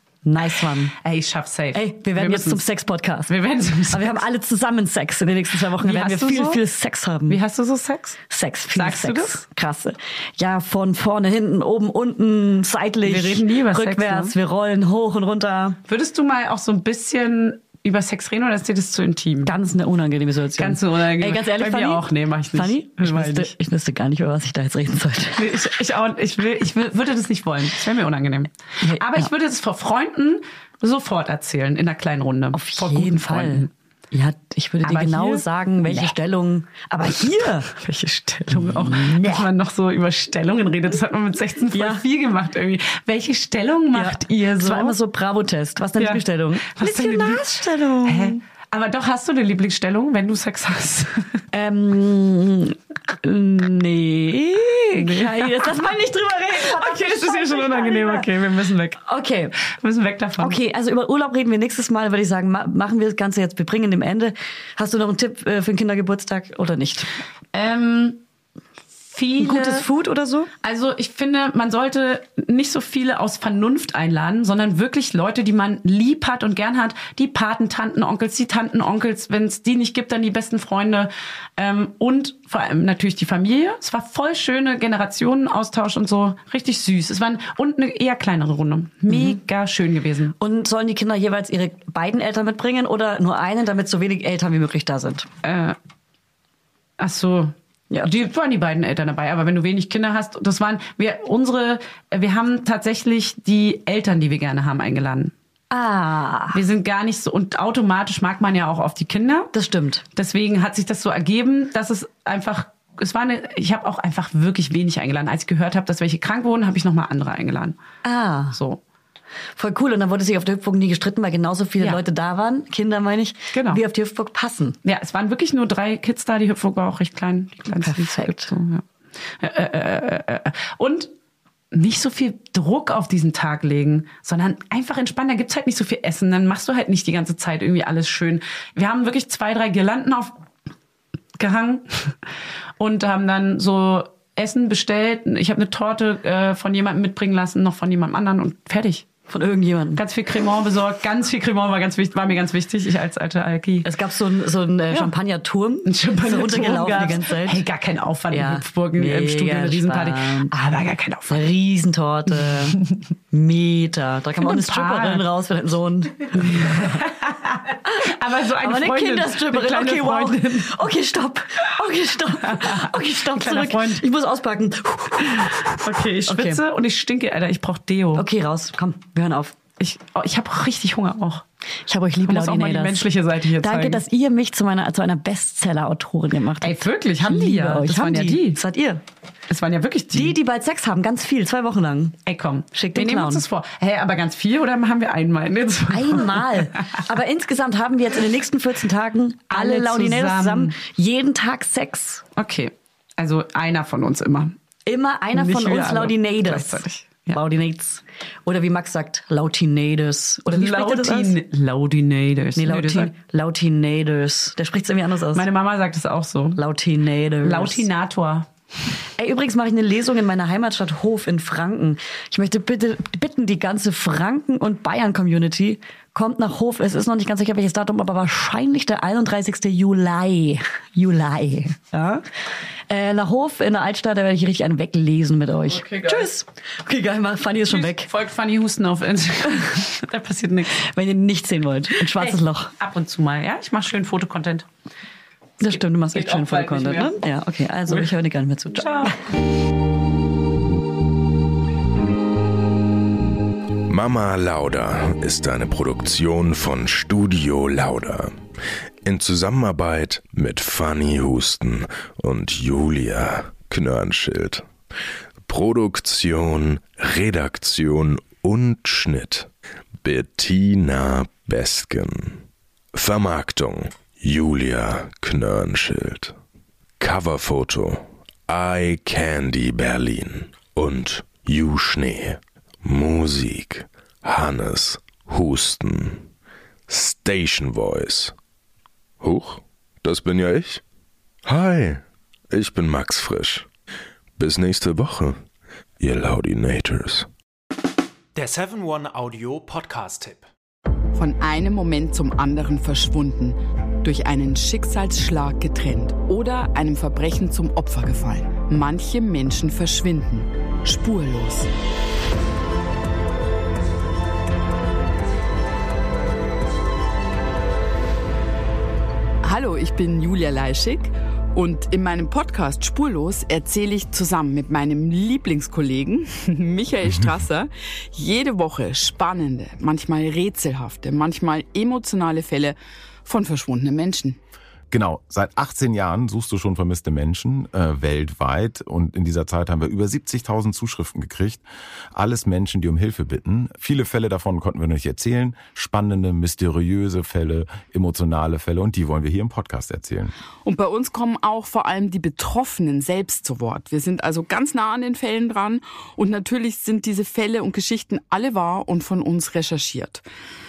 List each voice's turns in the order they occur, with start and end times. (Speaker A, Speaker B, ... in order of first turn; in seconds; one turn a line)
Speaker A: 0.2-0.9
Speaker B: 1.0-2.7
Speaker A: 1.7-3.3
Speaker B: 3.3-4.2
Speaker A: 3.9-7.4
Speaker B: 5.8-6.6
Speaker B: 7.3-8.2
Speaker A: 8.3-15.8
Speaker B: 8.7-9.4
Speaker B: 13.0-14.4
Speaker B: 15.9-19.5
Speaker A: 19.4-25.5
Speaker B: 20.6-23.5
Speaker B: 25.4-33.7
Speaker A: 28.8-29.3
Speaker A: 32.5-37.7
Speaker B: 34.9-36.1
Speaker B: 37.7-45.0
Speaker A: 38.6-39.5
Speaker A: 41.7-42.0
Speaker A: 43.9-48.4
Speaker B: 46.0-51.4
Speaker A: 51.5-58.3
Speaker B: 54.9-55.9
Speaker B: 56.5-59.0
Speaker A: 59.0-59.6
Speaker B: 59.7-60.6
Speaker A: 60.4-67.1
Speaker B: 67.5-68.2
Speaker B: 69.1-69.9
Speaker A: 69.4-70.5
Speaker B: 70.6-90.3
Speaker A: 89.1-89.4
Speaker A: 90.4-95.3
Speaker B: 95.4-95.8
Speaker B: 97.0-105.3
Speaker A: 105.7-106.6
Speaker B: 106.5-109.5
Speaker A: 109.5-110.0
Speaker B: 110.2-117.8
Speaker A: 118.0-118.6
Speaker B: 118.5-118.8
Speaker A: 119.6-124.8
Speaker B: 123.5-123.8
Speaker B: 124.8-128.8
Speaker A: 127.6-128.5
Speaker B: 129.4-131.1
Speaker B: 131.7-140.3
Speaker B: 141.4-142.2
Speaker B: 142.8-149.1
Speaker A: 149.3-150.0
Speaker B: 149.9-153.9
Speaker A: 153.8-157.6
Speaker B: 155.8-161.4
Speaker A: 158.3-160.5
Speaker A: 161.3-162.8
Speaker A: 163.3-167.0
Speaker B: 164.4-165.3
Speaker B: 166.3-170.7
Speaker A: 167.9-176.6
Speaker B: 172.4-174.1
Speaker B: 175.4-178.2
Speaker A: 178.2-179.6
Speaker B: 179.8-181.4
Speaker A: 181.9-183.1
Speaker B: 182.2-184.0
Speaker A: 183.6-189.0
Speaker B: 186.6-188.6
Speaker B: 189.5-190.4
Speaker A: 190.1-192.2
Speaker B: 192.3-196.9
Speaker A: 192.7-193.4
Speaker A: 195.9-202.2
Speaker B: 199.5-200.8
Speaker B: 202.4-204.6
Speaker A: 204.9-211.4
Speaker B: 205.3-207.4
Speaker B: 210.5-213.1
Speaker A: 212.6-215.5
Speaker B: 215.3-216.6
Speaker A: 216.6-217.9
Speaker B: 217.4-218.5
Speaker A: 219.2-232.2
Speaker A: 232.9-238.1
Speaker B: 235.7-236.3
Speaker B: 237.7-240.8
Speaker A: 240.8-242.7
Speaker B: 242.2-244.7
Speaker A: 245.6-249.2
Speaker B: 246.1-247.2
Speaker B: 248.8-249.2
Speaker C: 253.9-258.3
Speaker C: 259.0-264.7
Speaker C: 265.5-269.5
Speaker C: 270.0-276.3
Speaker C: 277.0-286.3
Speaker C: 286.9-288.3
Speaker C: 289.2-290.8
Speaker C: 291.4-293.7
Speaker C: 294.4-295.4
Speaker C: 296.0-297.3
Speaker D: 298.4-300.5
Speaker E: 301.1-311.7
Speaker E: 319.4-334.4
Speaker F: 334.9-341.6
Speaker F: 342.1-350.3
Speaker E: 350.6-360.2